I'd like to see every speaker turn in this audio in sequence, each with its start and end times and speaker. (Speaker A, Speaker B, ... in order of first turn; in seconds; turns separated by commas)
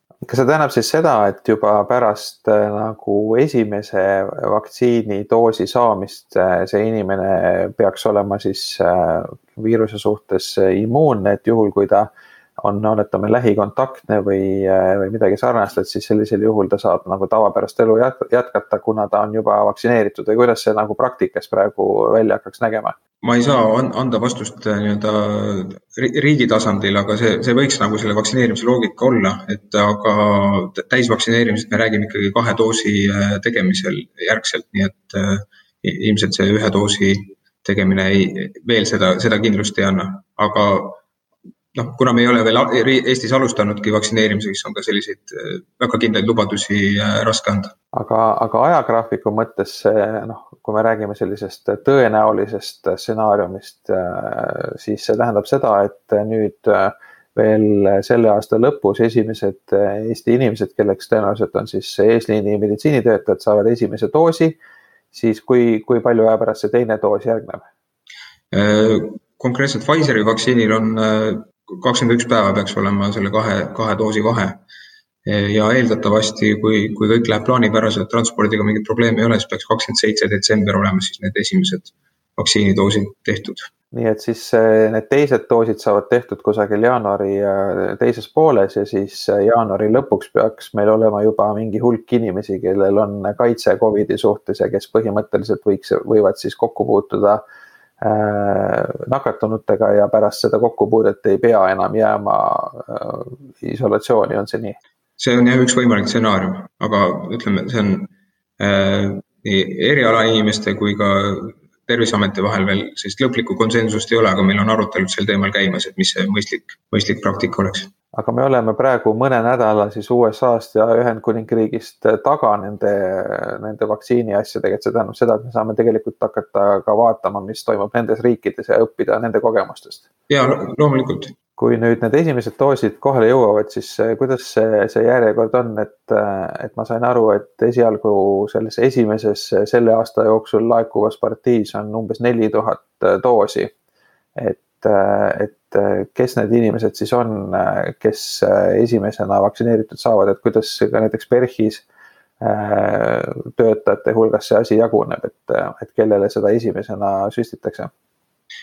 Speaker A: 0.2-22.9, Speaker B: 23.2-41.0, Speaker B: 41.7-47.7, Speaker A: 47.9-64.6, Speaker A: 65.1-67.7, Speaker B: 68.5-74.6, Speaker B: 75.2-83.7, Speaker A: 83.9-97.4, Speaker A: 98.0-104.8, Speaker B: 105.2-117.9, Speaker A: 118.1-130.1, Speaker B: 130.3-131.3, Speaker A: 131.6-143.7, Speaker A: 144.3-151.8, Speaker A: 152.4-157.9